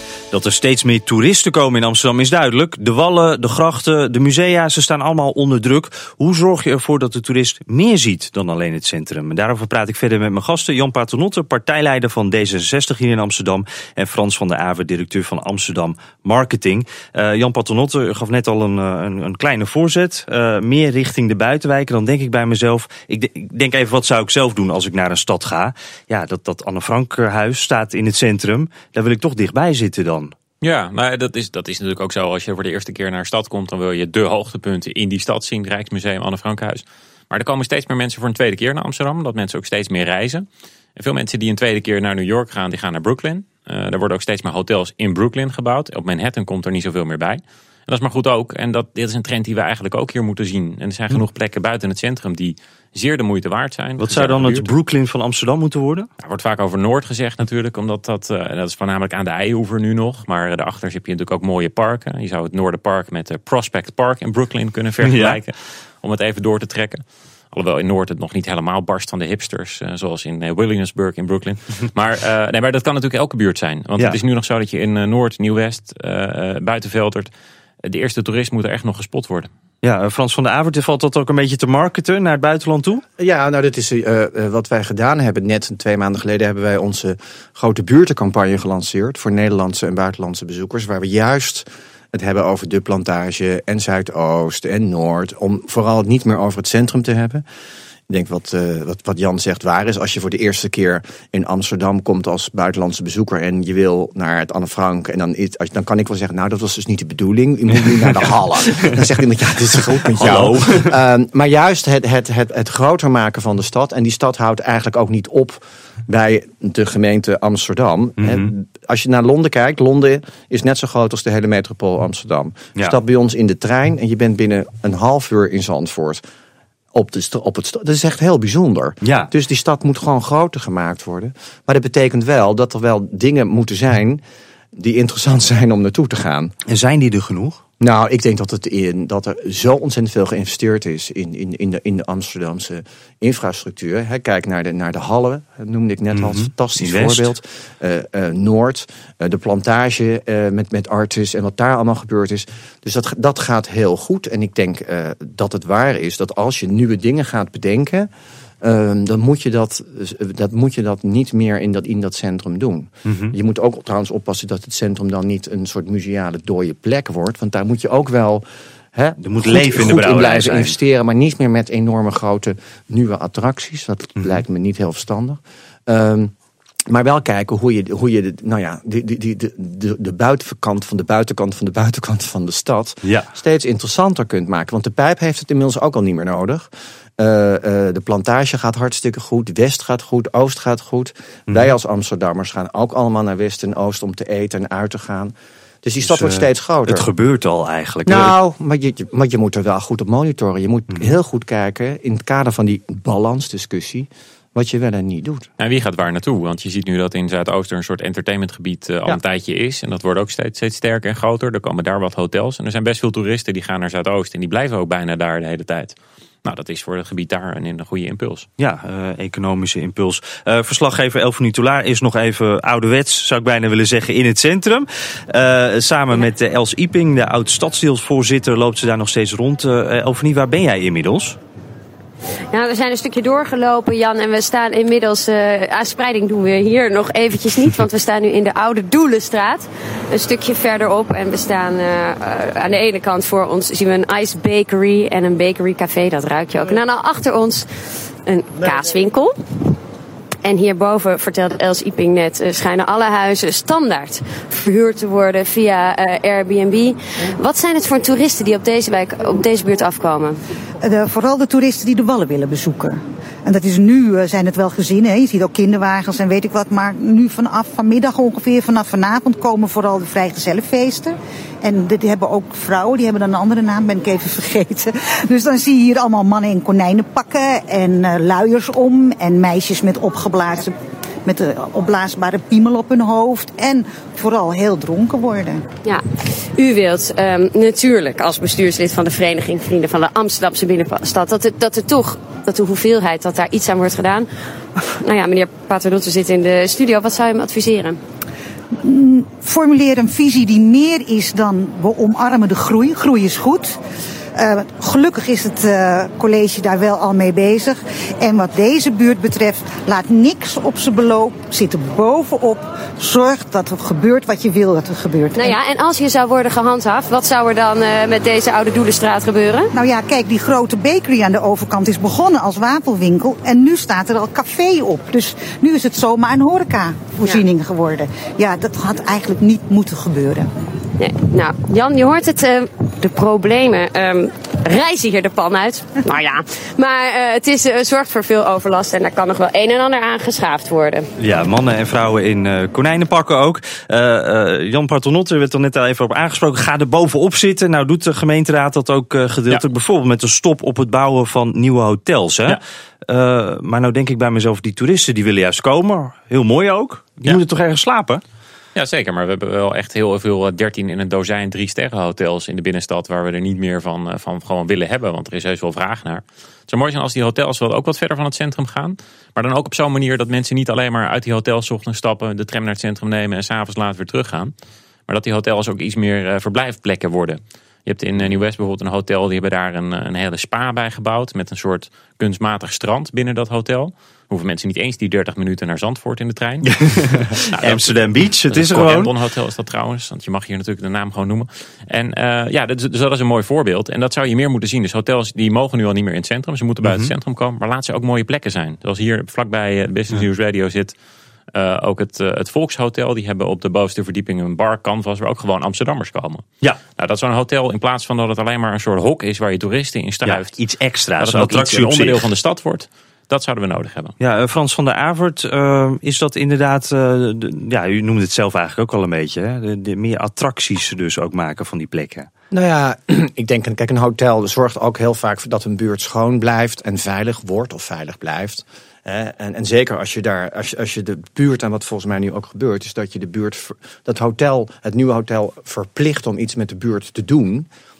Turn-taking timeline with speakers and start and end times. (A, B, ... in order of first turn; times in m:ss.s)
0:00.3-0:30.3 A
0:30.6-0:54.7 B
0:54.0-0:56.1 A
0:56.2-1:17.3 B
1:05.0-1:05.4 A
1:17.8-1:19.5 B
1:19.8-1:23.0 A
1:23.2-1:37.4 C
1:38.1-2:06.2 C
1:50.1-1:51.0 A
1:58.2-1:58.5 A
2:06.9-2:14.2 C
2:09.0-2:09.3 A
2:14.7-2:16.5 C
2:16.7-2:17.6 A
2:17.8-2:38.1 C
2:26.1-2:27.3 A
2:38.6-2:48.4 C
2:43.1-2:43.3 A
2:48.9-2:56.3 C
2:49.2-2:50.8 A
2:56.9-3:17.1 C
3:03.0-3:03.3 A
3:16.0-3:18.3 A
3:18.0-3:25.5 C
3:25.6-3:38.5 B
3:38.6-3:51.4 A
3:52.5-4:07.7 D
4:08.2-4:09.8 D
4:10.4-4:20.4 D
4:20.8-4:45.6 E
4:45.8-4:54.3 D
4:54.8-4:58.0 D
4:58.8-5:03.8 E
5:04.3-5:15.5 E
5:15.4-5:19.7 D
5:19.7-5:30.5 E
5:31.0-5:41.1 D
5:41.2-5:58.2 A
5:58.8-6:14.5 B
6:15.1-6:40.9 B
6:26.6-6:29.1 A
6:36.8-6:37.1 A
6:41.5-6:50.6 B
6:50.2-6:52.2 A
6:51.2-6:54.1 B
6:54.2-7:02.3 A
7:02.5-7:17.7 C